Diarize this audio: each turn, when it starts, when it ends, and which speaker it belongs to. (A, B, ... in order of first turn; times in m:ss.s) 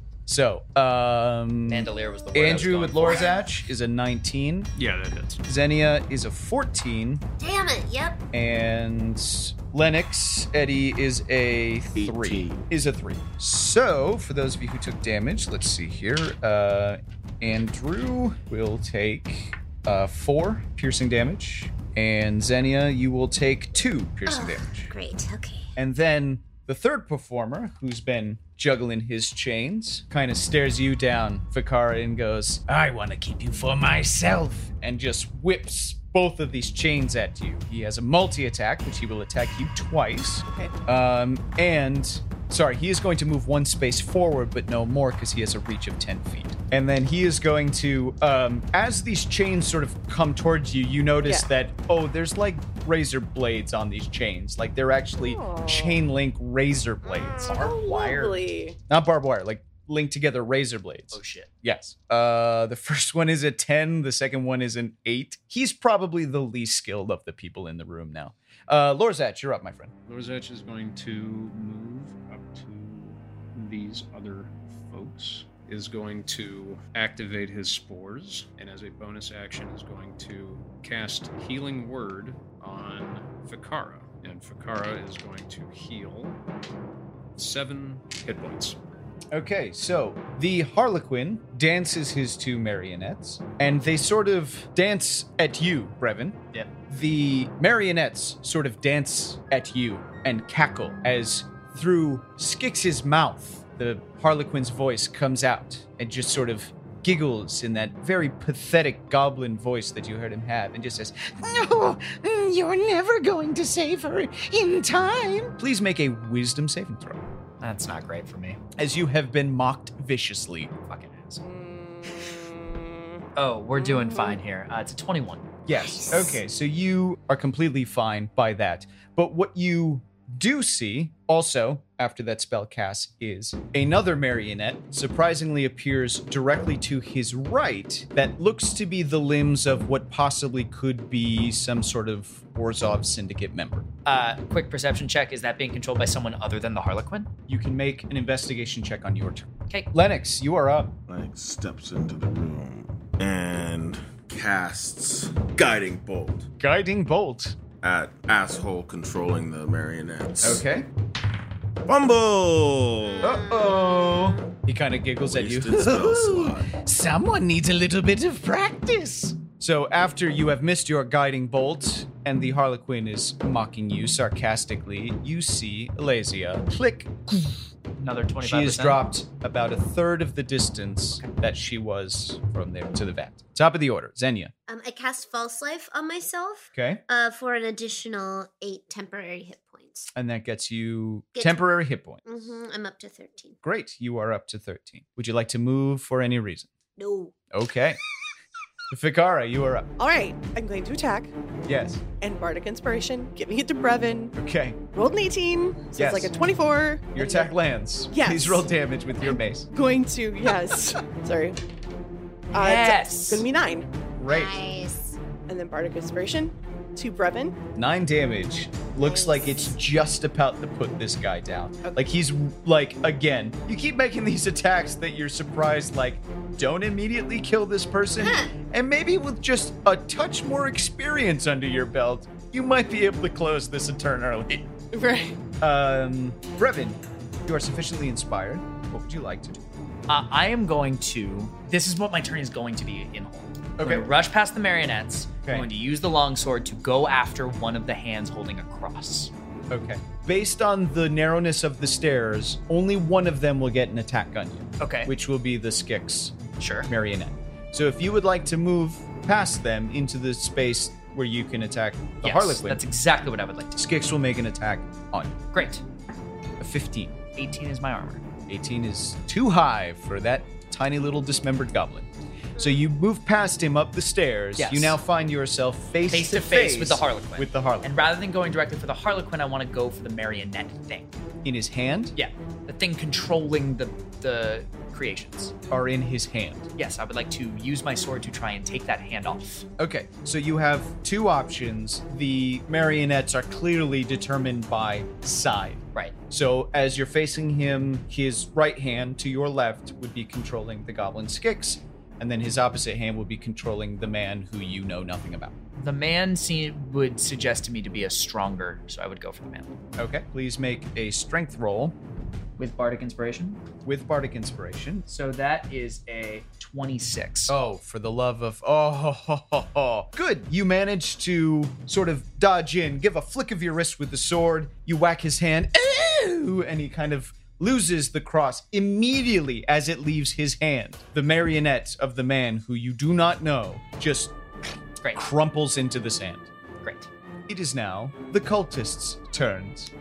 0:00.3-0:04.7 A
0:01.7-0:03.3 B
0:03.0-0:03.5 C
0:04.8-0:05.4 D
0:05.4-0:07.2 A
0:07.4-0:08.2 C
0:08.3-0:24.9 A
0:11.9-0:12.7 E
0:24.3-0:25.7 C
0:25.8-1:09.9 A
0:40.4-0:40.7 F
0:55.2-0:56.0 F
0:57.1-0:57.4 C
0:57.5-0:58.8 F
1:01.1-1:01.5 B
1:10.0-1:26.4 D
1:27.4-1:28.8 D
1:29.3-1:57.2 A
1:57.6-1:58.6 B
1:58.8-2:00.7 A
2:00.9-2:01.4 B
2:01.4-2:03.2 F
2:03.3-2:05.4 B
2:03.8-2:04.0 F
2:05.7-2:23.8 A
2:05.7-2:06.4 C
2:24.0-2:27.3 B
2:27.5-2:30.9 A
2:31.1-2:36.5 E
2:36.6-2:37.6 A
2:37.8-2:40.6 E
2:40.4-2:40.9 A
2:41.9-2:43.2 E
2:43.1-2:44.5 C
2:43.2-2:57.6 A
2:45.3-2:46.7 E
2:58.0-2:59.0 B
2:58.4-3:04.5 A
3:04.7-3:10.1 C
3:06.7-3:07.0 A
3:10.1-3:12.4 A
3:11.3-3:11.6 C
3:12.2-3:13.6 C
3:13.6-3:16.7 A
3:17.0-3:17.3 C
3:17.5-3:18.0 A
3:18.9-3:19.9 A
3:20.0-3:21.3 F
3:21.6-3:22.0 A
3:22.2-3:24.3 F
3:24.4-3:24.8 A
3:24.9-3:27.5 F
3:26.0-3:26.3 A
3:27.1-3:29.7 A
3:28.1-3:28.7 F
3:29.7-3:31.6 F
3:32.5-3:33.5 B
3:32.5-3:33.9 F
3:34.2-3:34.6 A
3:34.3-3:35.2 C
3:35.5-3:37.6 F
3:37.7-3:54.6 A
3:38.9-3:39.8 C
3:48.2-3:48.5 C
3:54.9-3:55.4 F
3:55.6-3:59.6 A
4:00.1-4:09.3 B
4:03.8-4:04.1 A
4:09.7-4:22.8 A
4:14.8-4:15.1 B
4:16.6-4:16.9 B
4:22.2-4:23.8 B
4:23.7-4:25.4 A
4:25.5-4:25.8 B
4:26.6-4:27.2 A
4:27.3-4:28.2 B
4:28.5-4:38.0 A
4:32.6-4:32.8 C
4:34.6-4:35.0 B
4:36.1-4:41.1 B
4:41.4-4:42.1 A
4:42.1-4:45.5 B
4:45.7-4:46.7 A
4:46.8-4:49.6 B
4:49.8-5:05.5 A
5:05.8-5:09.8 B
5:10.0-5:12.0 A
5:12.6-5:13.6 B
5:13.8-5:15.0 A
5:15.1-5:17.5 B
5:17.5-5:34.4 A
5:35.1-5:36.5 A
5:36.8-5:37.1 B
5:37.5-5:39.9 A